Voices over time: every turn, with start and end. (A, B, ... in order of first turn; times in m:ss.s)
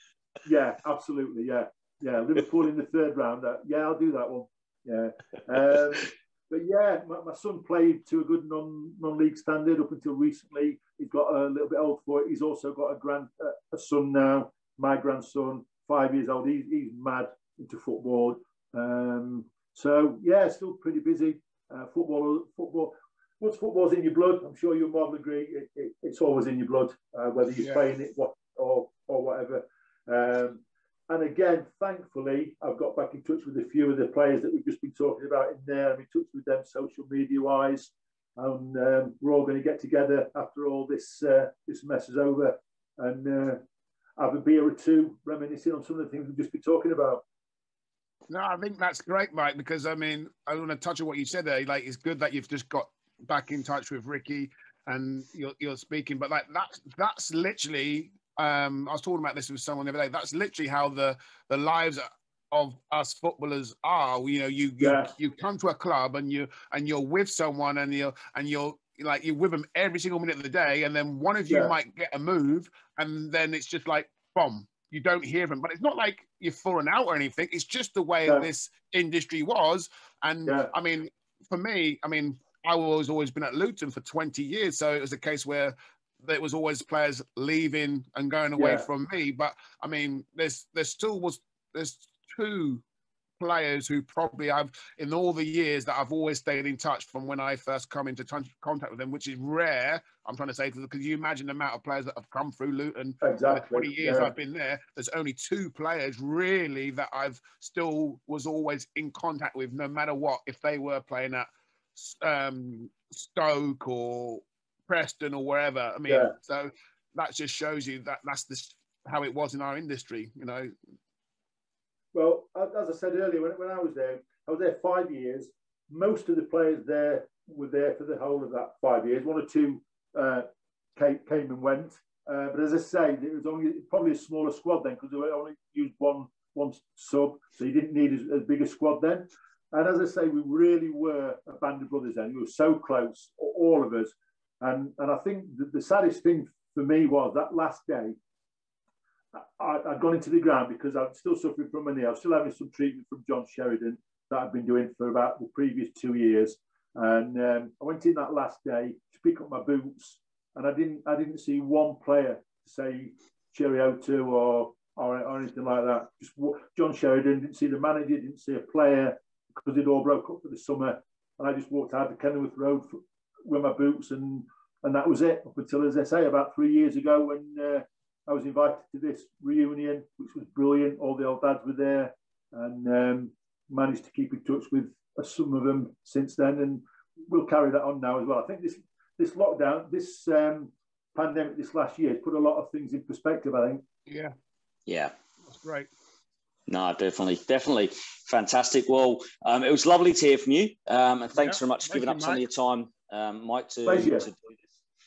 0:00.4-0:43.6 A
0:44.2-0:47.2 A
0:48.3-1:32.8 B
1:04.8-1:05.1 A
1:11.5-1:11.7 A
1:20.5-1:20.7 A
1:28.6-1:28.9 A
1:33.4-2:00.7 B
1:43.2-1:44.3 A
1:56.1-1:56.4 A
2:02.1-2:28.2 A
2:29.3-3:13.8 A
3:14.1-3:14.3 B
3:14.9-3:15.1 C
3:15.5-3:15.9 B
3:16.7-3:24.6 C
3:21.4-3:22.4 B
3:23.9-3:24.3 A